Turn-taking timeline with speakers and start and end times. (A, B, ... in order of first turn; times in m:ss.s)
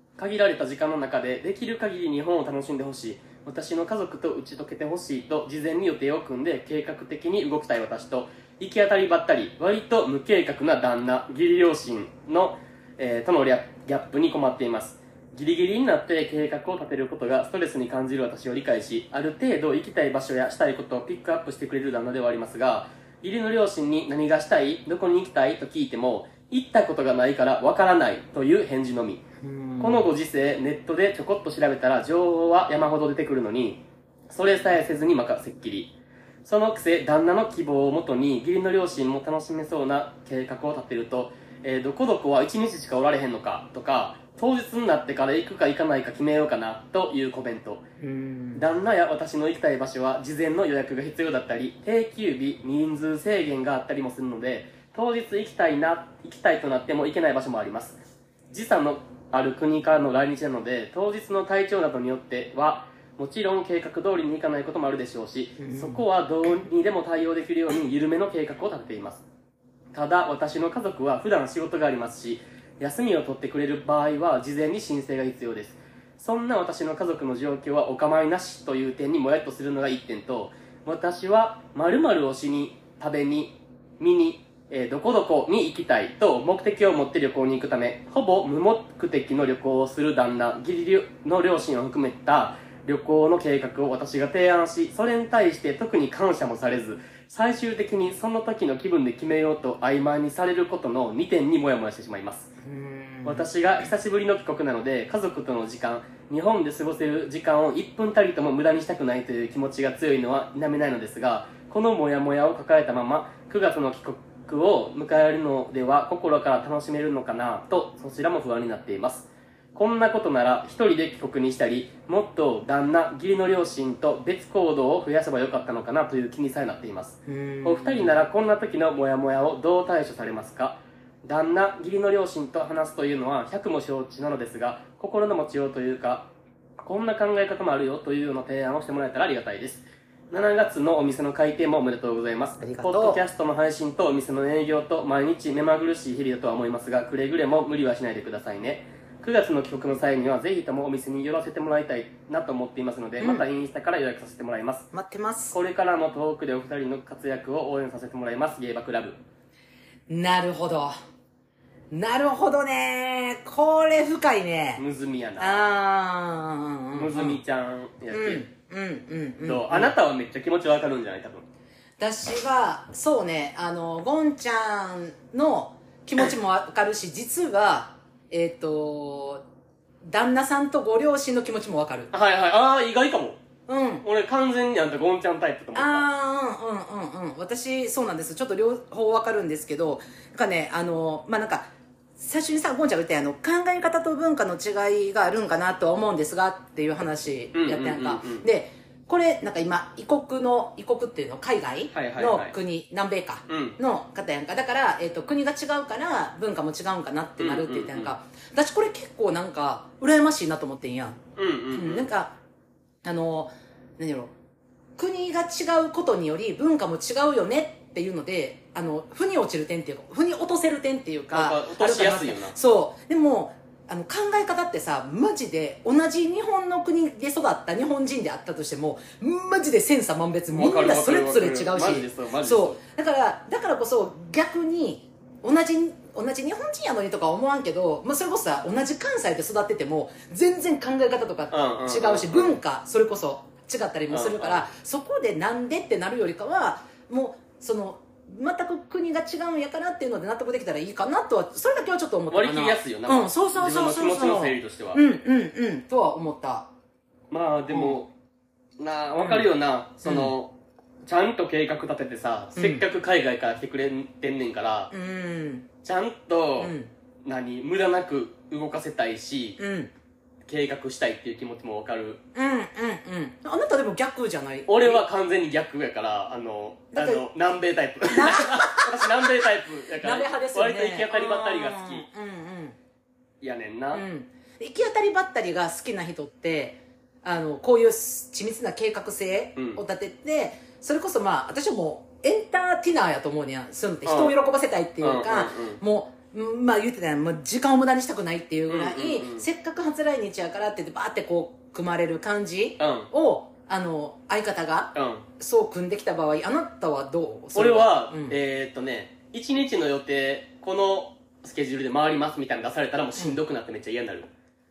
0:00.2-0:29.2 A
0:29.4-0:30.1 B
0:29.8-0:47.8 A
0:48.0-0:48.6 B
0:48.6-0:58.0 A
0:58.5-1:09.2 A
1:05.6-1:06.0 B
1:09.9-1:42.5 A
1:42.6-1:43.4 B
1:43.2-2:16.3 A
2:07.2-2:08.1 B
2:16.8-2:34.9 A
2:22.6-2:23.2 B
2:33.2-2:33.4 B
2:34.9-2:35.6 B
2:35.5-2:39.2 A
2:40.1-2:40.9 B
2:41.9-2:44.8 B
2:44.8-2:45.6 A
2:45.4-2:47.4 B
2:46.9-2:48.4 A
2:48.1-2:49.9 B
2:49.4-2:51.4 A
2:52.0-2:59.4 B
3:00.0-3:02.1 B
3:02.1-3:03.4 A
3:03.7-3:04.0 B
3:04.0-3:06.1 A
3:05.7-3:31.2 B
3:17.5-3:18.5 A
3:21.9-3:22.5 A
3:23.5-3:23.8 A
3:27.4-3:28.1 A
3:31.4-3:32.1 A
3:31.7-3:32.4 B
3:33.0-3:34.3 B
3:35.0-4:16.7 B
3:41.3-3:42.5 A
3:50.5-3:52.8 A
4:01.5-4:02.6 A
4:04.1-4:04.7 A
4:12.3-4:15.0 A
4:17.3-4:18.1 A
4:17.7-4:18.0 B
4:18.8-4:20.5 A
4:19.2-4:19.5 B
4:20.0-4:20.3 B
4:21.0-4:24.9 A
4:22.6-4:22.8 B
4:24.9-4:25.7 B
4:25.8-4:26.7 A
4:26.6-4:26.9 B
4:27.2-4:29.6 A
4:29.6-4:29.9 B
4:30.5-4:32.2 A
4:32.3-4:35.0 B
4:34.7-4:42.0 A
4:36.9-4:37.3 B
4:38.1-4:42.8 B
4:43.4-4:44.0 A
4:43.9-5:08.4 B
4:49.6-4:49.8 A
4:54.0-4:54.4 A
4:55.0-4:55.8 A
4:58.7-4:59.5 A
5:02.8-5:03.1 A
5:04.9-5:05.3 A
5:07.5-5:14.3 A